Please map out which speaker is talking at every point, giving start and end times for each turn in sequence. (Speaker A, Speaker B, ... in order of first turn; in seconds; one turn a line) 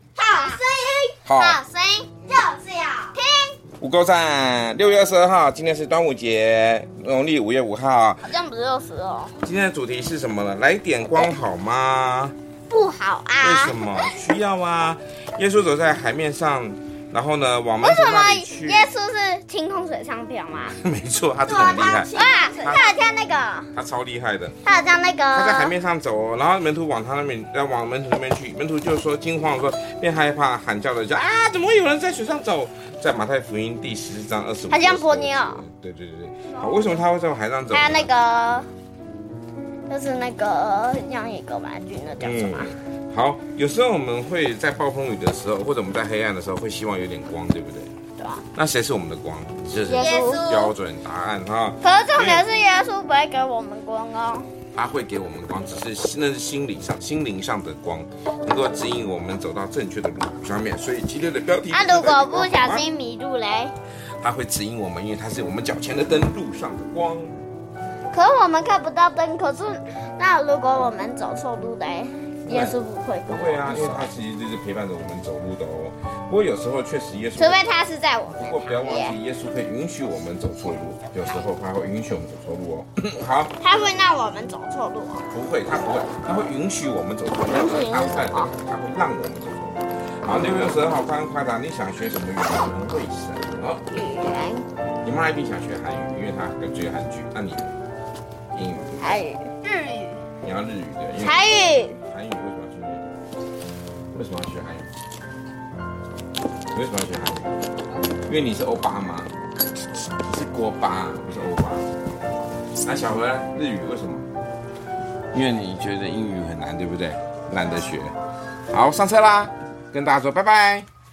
Speaker A: 0.2-3.5
Speaker B: 1.2-1.6
Speaker B: 3.8-8.3
Speaker A: 8.2-9.4
Speaker B: 9.4-12.3
Speaker A: 12.7-14.2
Speaker B: 13.4-18.9
Speaker A: 17.8-20.8
Speaker B: 20.8-22.9
Speaker A: 21.5-23.7
Speaker B: 23.7-24.6
Speaker A: 24.6-25.7
Speaker B: 25.3-38.1
Speaker A: 34.7-35.6
Speaker A: 36.6-37.0
Speaker A: 37.7-38.7
Speaker A: 39.9-42.7
Speaker B: 42.2-47.9
Speaker B: 48.5-52.5
Speaker A: 49.9-50.7
Speaker A: 51.8-54.5
Speaker B: 54.8-62.9
Speaker A: 61.7-63.7
Speaker B: 64.2-67.4
Speaker A: 68.1-74.1
Speaker B: 72.5-77.7
Speaker A: 77.4-79.2
Speaker B: 78.3-83.5
Speaker A: 83.6-85.3
Speaker B: 85.3-93.8
Speaker A: 87.5-88.5
Speaker A: 93.9-94.7
Speaker B: 95.0-97.7
Speaker B: 98.5-99.2
Speaker A: 99.0-100.1
Speaker B: 100.4-103.1
Speaker A: 101.2-102.0
Speaker B: 104.1-104.9
Speaker B: 106.7-107.5
Speaker B: 108.3-109.3
Speaker B: 110.2-111.9
Speaker B: 112.8-114.3
Speaker B: 115.3-118.2
Speaker B: 118.7-120.9